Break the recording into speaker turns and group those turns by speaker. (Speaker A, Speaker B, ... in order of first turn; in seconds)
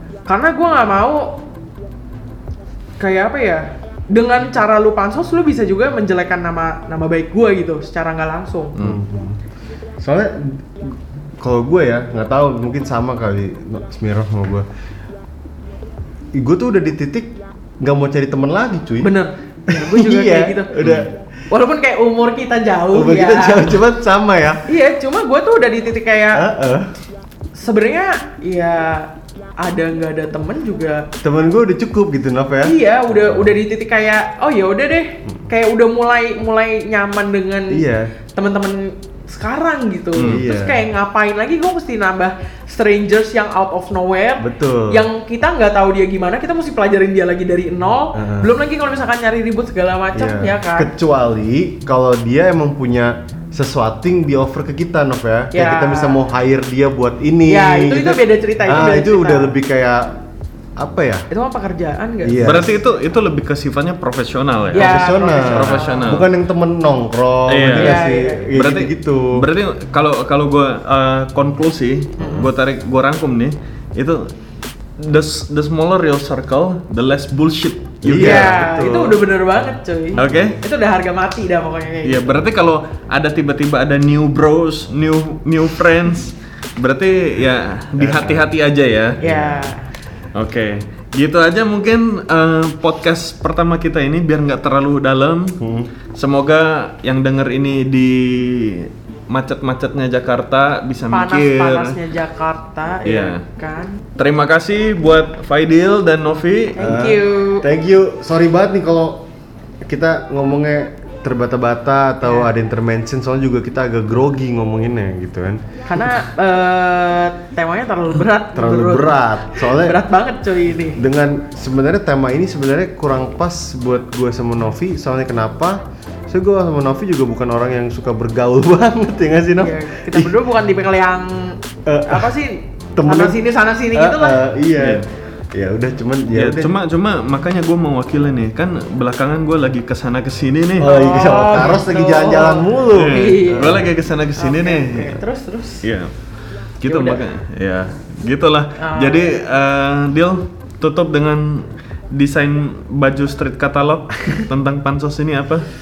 Speaker A: 0.3-1.4, 3.0-8.8, 19.0-20.7, 21.5-23.8, 24.7-26.5, 27.6-31.1, 32.6-50.9, 55.5-56.2, 57.5-59.5, 61.3-62.4, 64.7-66.0, 67.7-68.5, 78.2-82.4, 89.2-89.8, 101.1-104.0, 106.8-107.7, 112.2-112.5, 115.9-121.0, 129.6-134.4, 140.8-145.8, 146.9-147.2, 148.8-149.4
Speaker B: 8.8-9.0, 20.8-21.1, 62.4-66.3, 67.5-74.3, 75.0-78.6, 80.2-80.6, 82.0-89.2, 90.3-95.6, 96.1-102.0, 103.0-103.4, 104.2-106.8, 134.8-135.1, 136.3-140.9, 142.9-145.2, 145.8-146.1, 146.8-155.7
Speaker C: 8.8-9.4, 10.0-14.7, 16.3-19.2, 19.7-21.2, 22.9-24.6, 26.4-26.9, 31.2-33.5, 37.7-38.1, 40.2-40.8, 44.4-45.0, 48.1-48.5, 50.1-60.2, 60.8-61.3, 62.2-62.8, 64.8-69.4, 72.2-72.5, 78.0-79.2, 80.1-80.5, 88.0-88.5, 89.2-89.7, 95.6-95.9, 106.8-109.3, 109.8-115.6, 118.5-120.0, 121.0-130.3, 131.9-132.4, 133.0-133.4, 133.9-136.7, 140.8-143.2